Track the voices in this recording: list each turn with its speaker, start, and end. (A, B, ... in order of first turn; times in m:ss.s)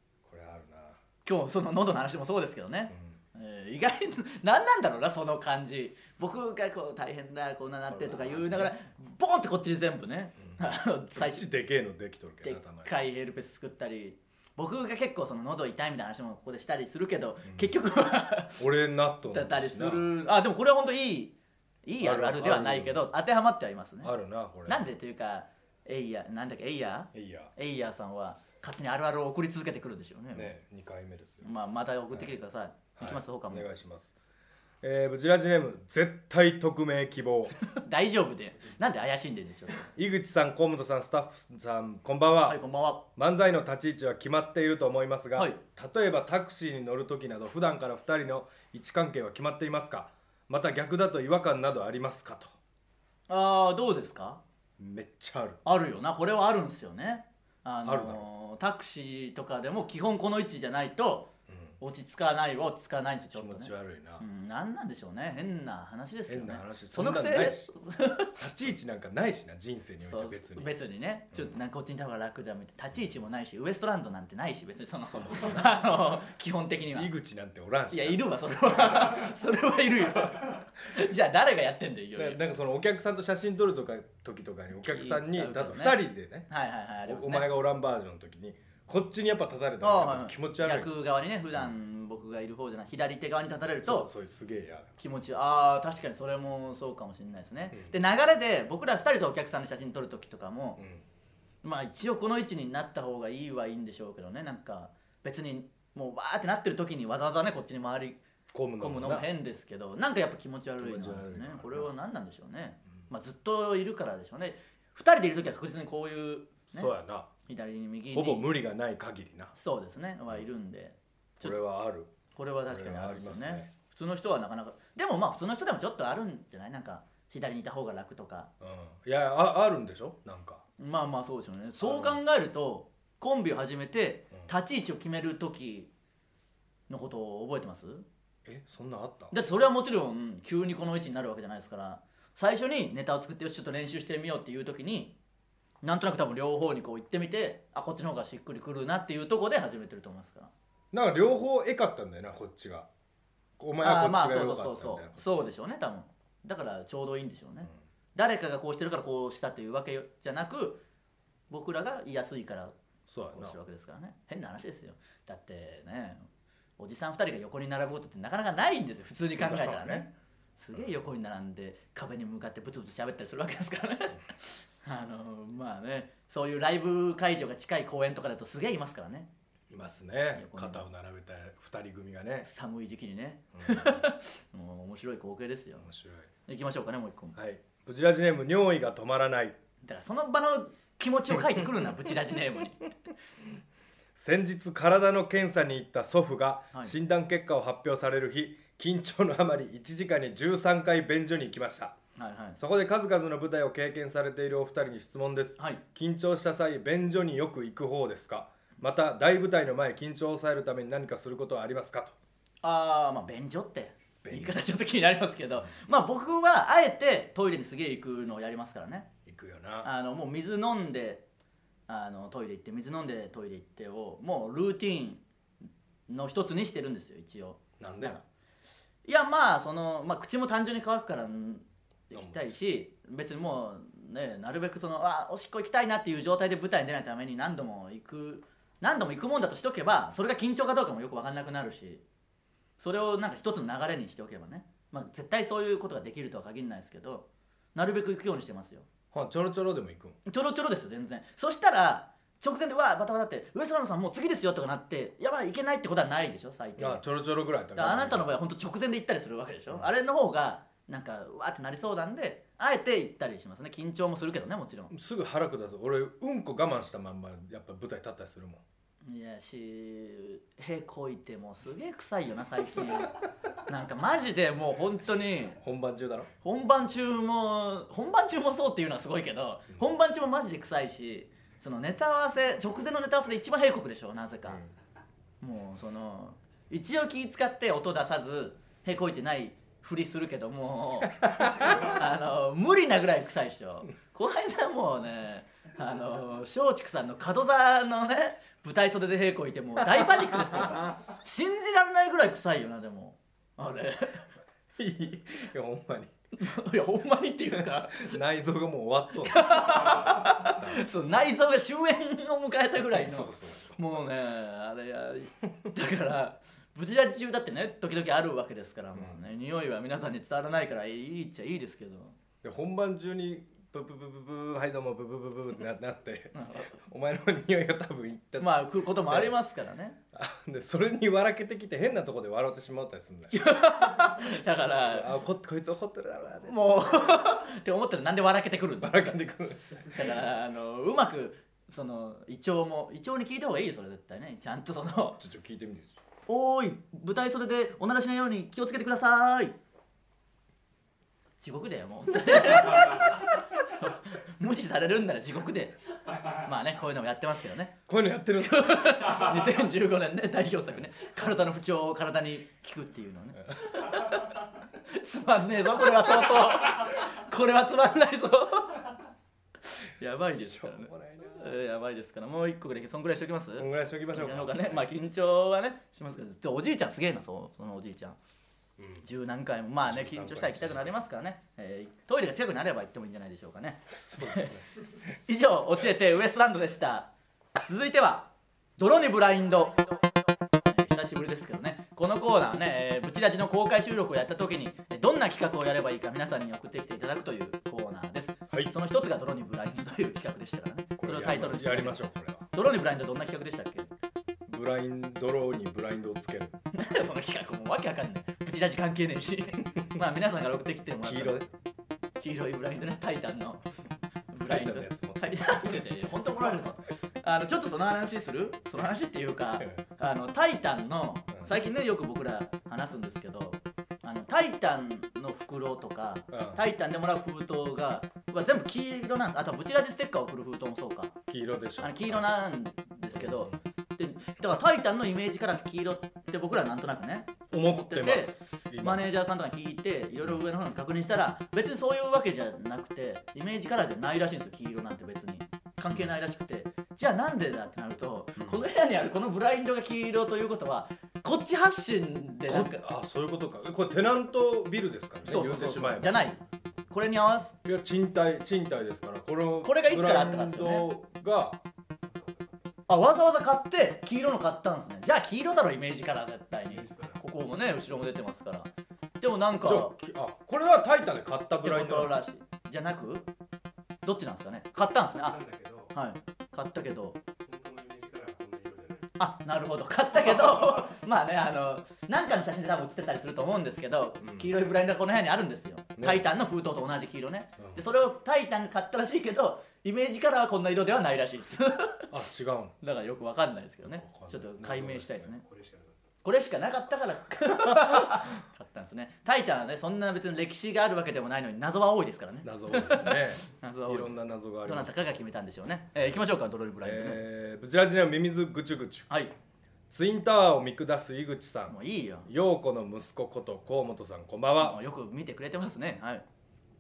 0:00.2-0:01.0 A
0:01.2-0:11.4 B
0:07.9-0:08.7 A
0:10.5-0:13.0 A
0:12.4-0:18.6 B
0:17.5-0:17.8 A
0:18.6-0:20.1 A
0:19.3-0:24.1 B
0:22.0-0:23.1 A
0:24.0-0:24.9 A
0:24.7-0:30.5 B
0:27.1-0:27.5 A
0:30.3-0:31.5 A
0:31.4-0:33.7 B
0:33.0-0:34.2 A
0:34.8-0:37.6 A
0:37.7-0:39.9 B
0:39.9-0:42.6 A
0:42.5-0:43.0 B
0:43.2-0:52.5 A
0:45.4-0:45.6 B
0:53.3-0:54.4 B
0:54.8-0:55.6 A
0:55.6-1:01.3 B
0:57.8-0:58.2 A
1:01.8-1:08.4 B
1:03.4-1:04.2 A
1:06.3-1:07.7 A
1:08.4-1:10.7 A
1:10.0-1:17.1 B
1:15.1-1:15.9 A
1:16.9-1:19.2 A
1:17.9-1:22.4 B
1:22.2-1:26.5 A
1:24.8-1:27.5 B
1:27.1-1:30.9 A
1:29.8-1:34.1 B
1:33.8-1:34.9 A
1:35.0-1:40.8 B
1:40.8-1:41.0 A
1:41.6-1:48.2 B
1:48.5-1:49.3 A
1:48.8-1:56.9 B
1:50.8-1:51.9 A
1:56.7-1:57.3 A
1:57.5-1:58.5 B
1:58.1-1:59.5 A
1:59.5-2:01.6 B
2:01.4-2:02.1 A
2:02.3-2:08.5 B
2:02.7-2:03.7 A
2:08.6-2:10.6 A
2:10.8-2:15.9 B
2:11.8-2:12.2 A
2:16.9-2:18.0 B
2:18.4-2:19.3 A
2:19.3-2:25.1 B
2:25.8-2:30.5 B
2:30.9-2:32.9 A
2:33.6-2:35.3 A
2:33.8-2:40.8 B
2:41.5-2:42.8 B
2:43.1-2:43.6 A
2:43.3-2:46.2 B
2:46.8-2:59.3 B
2:49.4-2:50.1 A
2:59.7-3:02.5 A
3:00.4-3:00.8 B
3:02.4-3:05.9 B
3:03.6-3:04.1 A
3:05.8-3:06.3 A
3:06.5-3:07.4 B
3:07.4-3:09.6 A
3:09.8-3:12.9 B
3:14.2-3:22.0 A
3:22.2-3:22.6 B
3:22.6-3:32.2 A
3:32.6-3:39.1 B
3:34.2-3:34.6 A
3:39.3-3:39.9 A
3:39.8-3:41.2 B
3:41.9-3:45.2 B
3:46.1-3:48.2 B
3:47.8-3:48.2 A
3:49.0-4:02.0 B
3:52.1-3:52.5 A
4:02.8-4:08.9 B
4:09.1-4:10.2 A
4:10.3-4:17.1 B
4:16.8-4:18.3 A
4:17.8-4:24.9 B
4:24.9-4:28.6 A
4:29.0-4:33.2 B
4:33.7-4:35.6 B
4:35.6-4:36.3 A
4:36.4-4:44.6 B
4:45.4-5:04.3 B
4:51.2-4:51.9 A
5:00.0-5:00.9 A
5:04.8-5:06.1 A
5:06.4-5:08.2 B
5:07.5-5:10.8 A
5:09.2-5:22.2 B
5:12.9-5:13.8 A
5:19.0-5:19.2 A
5:22.4-5:29.4 A
5:26.4-5:26.7 B
5:28.4-5:30.0 B
5:30.1-5:34.1 A
5:33.3-5:35.1 B
5:34.8-5:37.2 A
5:36.4-5:39.2 B
5:38.8-5:40.0 A
5:39.8-5:45.2 B
5:45.2-5:45.9 A
5:46.3-5:49.6 B
5:51.4-5:57.8 B
5:57.9-5:59.3 A
5:58.4-6:09.0 B
6:03.6-6:04.1 A
6:09.8-6:18.2 B
6:10.3-6:11.5 A
6:13.6-6:14.8 A
6:18.8-6:19.0 A
6:19.0-6:24.5 B
6:19.8-6:21.0 A
6:23.9-6:24.6 A
6:25.3-6:29.9 B
6:30.7-6:42.0 B
6:41.0-6:42.5 A
6:42.5-6:43.9 B
6:44.5-6:46.5 A
6:46.7-6:51.4 B
6:51.0-6:51.5 A
6:52.2-6:53.6 B
6:54.3-7:11.2 B
6:54.5-6:55.7 A
7:06.3-7:06.6 A
7:11.3-7:12.3 A
7:11.8-7:32.8 B
7:13.1-7:13.5 A
7:17.5-7:19.1 A
7:28.4-7:28.6 A
7:32.5-7:36.2 A
7:35.3-7:37.6 B
7:37.6-7:41.6 A
7:39.6-7:40.9 B
7:42.1-7:42.5 C
7:42.9-7:48.7 B
7:46.7-7:47.2 C
7:49.2-7:49.9 B
7:49.6-7:52.2 A
7:51.6-7:53.3 B
7:54.0-7:55.4 B
7:55.1-7:55.9 C
7:55.9-7:57.2 B
7:57.4-7:59.1 C
7:59.2-8:12.1 B
8:04.2-8:04.5 A
8:06.0-8:06.2 A
8:07.6-8:07.8 A
8:12.1-8:12.8 A
8:12.8-8:15.4 B
8:13.8-8:15.3 A
8:15.5-8:15.9 C
8:16.2-8:27.2 B
8:17.7-8:18.3 A
8:22.4-8:25.1 A
8:26.8-8:29.1 A
8:29.9-8:34.8 A
8:31.7-8:32.3 B
8:34.6-8:36.2 B